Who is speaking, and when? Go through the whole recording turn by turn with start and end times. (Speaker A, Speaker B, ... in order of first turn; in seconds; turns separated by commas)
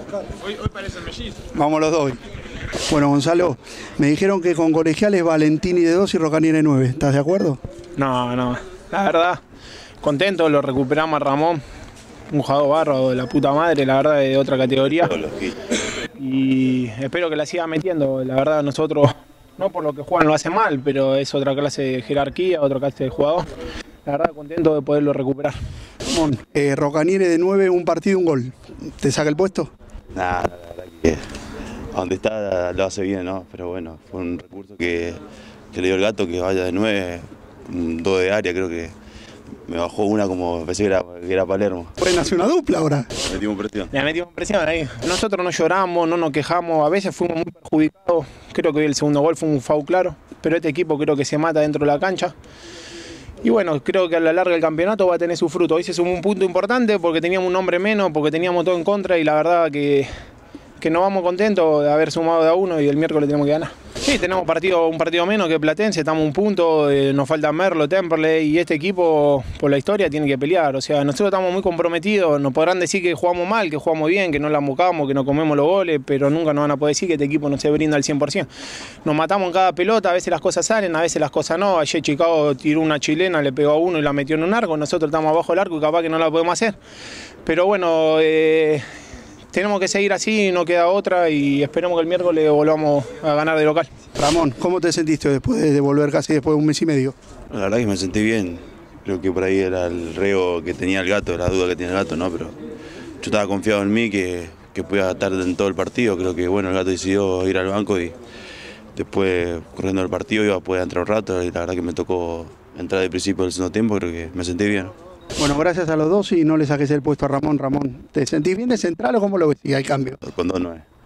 Speaker A: 1.5-2.2, Speaker A: 2.9-7.6, Speaker B: 8.0-9.4, Speaker B: 10.0-11.6, Speaker B: 12.3-15.1, Speaker C: 14.8-15.7, Speaker B: 16.1-23.4, Speaker B: 24.0-25.6, Speaker A: 26.1-29.7, Speaker C: 30.1-31.2, Speaker C: 31.9-38.9, Speaker C: 39.7-41.9, Speaker A: 42.0-43.1, Speaker C: 43.2-43.9, Speaker B: 43.9-52.3, Speaker B: 53.4-60.1, Speaker B: 60.8-78.5, Speaker B: 79.0-86.8, Speaker B: 87.4-88.8, Speaker B: 89.5-93.9, Speaker A: 94.2-97.1, Speaker C: 97.5-102.5, Speaker C: 103.2-108.2, Speaker C: 108.9-114.9, Speaker A: 115.4-120.2, Speaker C: 120.2-120.8